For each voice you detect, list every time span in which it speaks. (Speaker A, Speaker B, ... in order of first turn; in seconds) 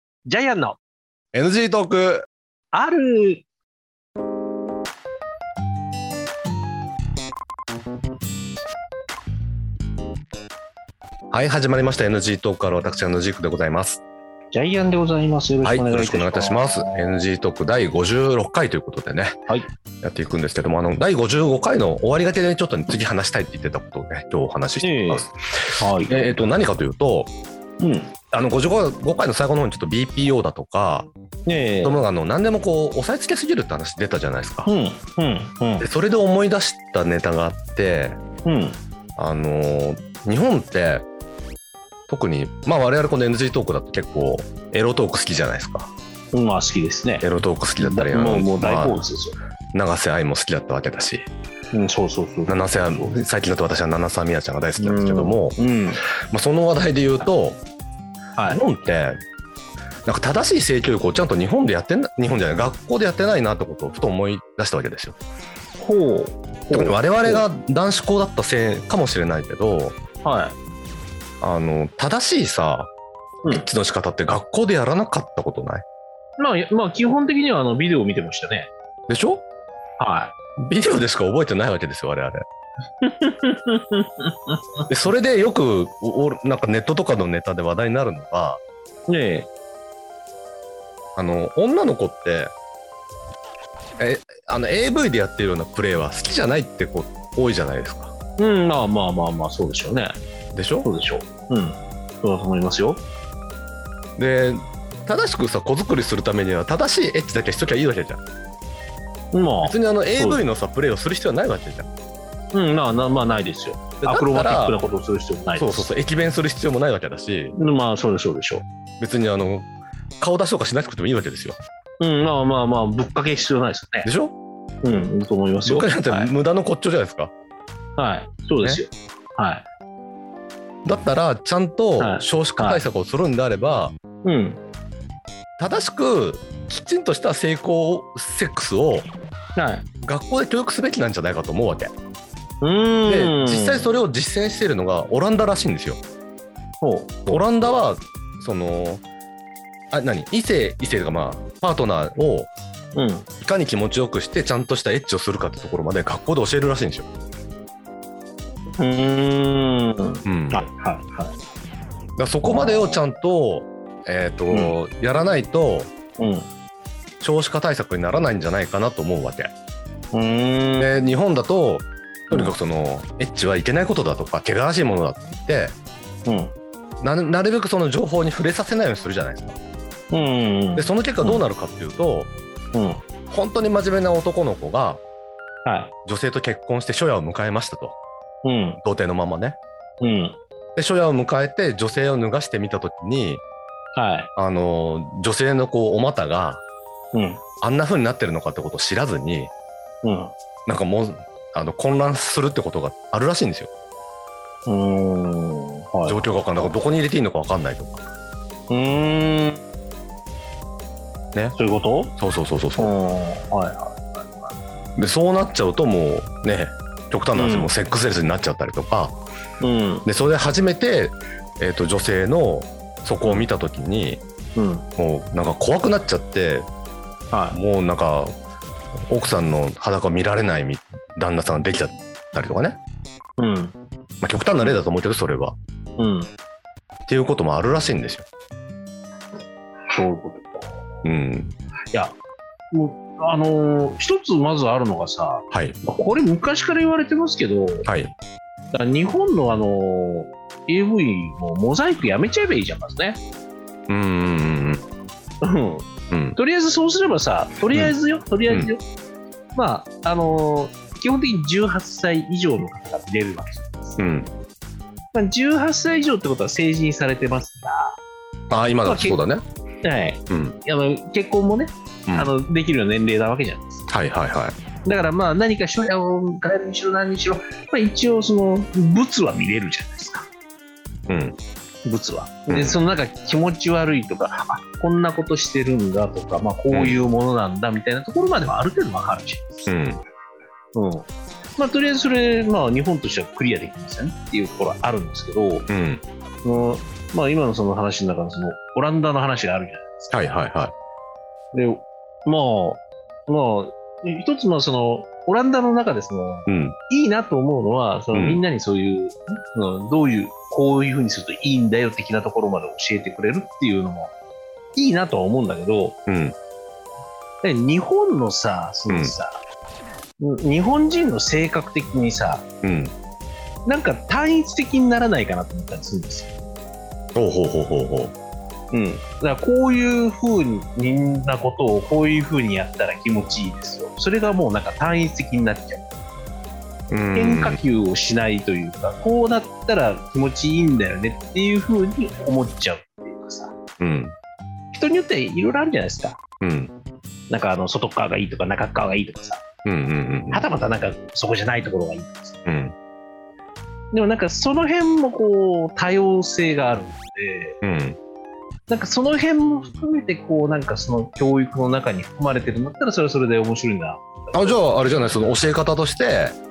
Speaker A: 0.3-0.8, 2.7-3.4, 14.5-17.2, 24.8-25.2, 25.8-26.5, 27.8-28.1, 31.4-32.0, 34.6-35.8, 38.4-38.8, 46.3-47.2, 47.8-49.4, 51.7-53.1, 54.8-56.0, 58.4-58.6, 65.8-67.5, 70.2-70.5, 76.4-78.7, 80.0-80.3, 83.0-84.6, 89.1-89.5, 98.4-100.2, 100.8-103.0, 109.3-110.4, 112.5-115.9, 117.5-118.6, 122.0-124.1, 124.8-126.3, 128.0-129.7, 132.0-132.8, 134.2-134.6, 139.6-139.8, 142.6-143.9, 146.8-147.4, 152.9-153.3, 158.8-161.3, 162.4-163.0, 166.2-166.5, 170.1-170.9, 172.3-172.6, 176.2-176.5, 180.1-181.4, 182.7-183.0, 185.6-185.9, 188.4-188.8, 190.0-190.4, 193.9-194.3, 197.1-197.4, 200.0-200.3, 204.7-206.2, 208.7-209.6, 211.5-212.1, 212.8-214.6, 217.3-217.7, 219.6-220.1, 223.2-223.5, 224.5-224.9, 227.3-227.6, 233.4-233.7, 236.0-236.3, 239.9-240.8, 242.7-247.8, 248.7-253.2, 255.4-258.8, 259.5-264.0, 265.1-268.0, 268.8-269.2, 269.8-273.9, 274.8-280.3, 281.8-289.7, 290.7-295.7, 296.4-300.4, 301.5-314.1, 314.7-316.0, 317.4-319.4, 320.2-322.4, 323.6-326.3, 328.7-335.8, 337.1-343.5, 344.7-346.2, 347.3-349.4, 350.3-352.4, 353.9-357.6, 358.7-365.1
Speaker B: 1.3-2.2, 11.3-14.0, 15.6-19.4, 20.0-27.3, 28.3-31.1, 31.8-34.7, 35.8-38.2, 39.2-41.1, 42.1-45.9, 47.2-49.0, 49.7-51.3, 52.5-55.6, 56.3-57.6, 58.5-59.2, 60.0-65.2, 66.7-70.0, 71.4-72.9, 73.5-75.8, 79.1-79.4, 80.6-82.4, 84.9-88.6, 91.2-92.5, 94.0-98.1, 100.5-100.9, 104.2-108.2, 109.6-111.9, 114.0-114.8, 115.6-117.5, 119.0-119.7, 120.2-121.6, 124.0-124.3, 125.6-127.3, 130.8-133.9, 135.6-139.1, 140.0-141.9, 143.1-146.0, 147.3-149.0, 149.9-152.5, 153.4-157.1, 160.2-160.6, 162.2-165.9, 167.2-169.5, 170.8-175.7, 177.0-179.6, 180.8-182.3, 183.3-185.0, 186.1-188.0, 188.8-189.6, 190.8-193.4, 194.3-196.6, 197.6-199.5, 200.7-203.7, 206.0-208.0, 212.2-212.9, 214.9-219.2, 220.1-224.2, 225.0-226.7, 227.5-228.3, 229.1-232.8, 234.2-235.6, 237.1-238.2, 241.0-241.5, 245.5-245.8, 247.8-248.1, 253.9-254.8, 256.1-256.4, 264.0-264.3, 268.5-269.4, 270.3-270.6, 273.9-274.6, 281.1-281.4, 282.5-282.8, 286.7-287.0, 289.7-290.0, 295.7-296.0, 300.1-300.7, 306.5-306.8, 308.1-308.4, 316.1-316.4, 318.9-319.1, 322.6-322.9, 327.1-328.1, 336.9-337.6, 343.8-344.1, 346.4-346.7, 349.6-350.4, 352.4-352.7, 357.6-358.0, 364.3-366.4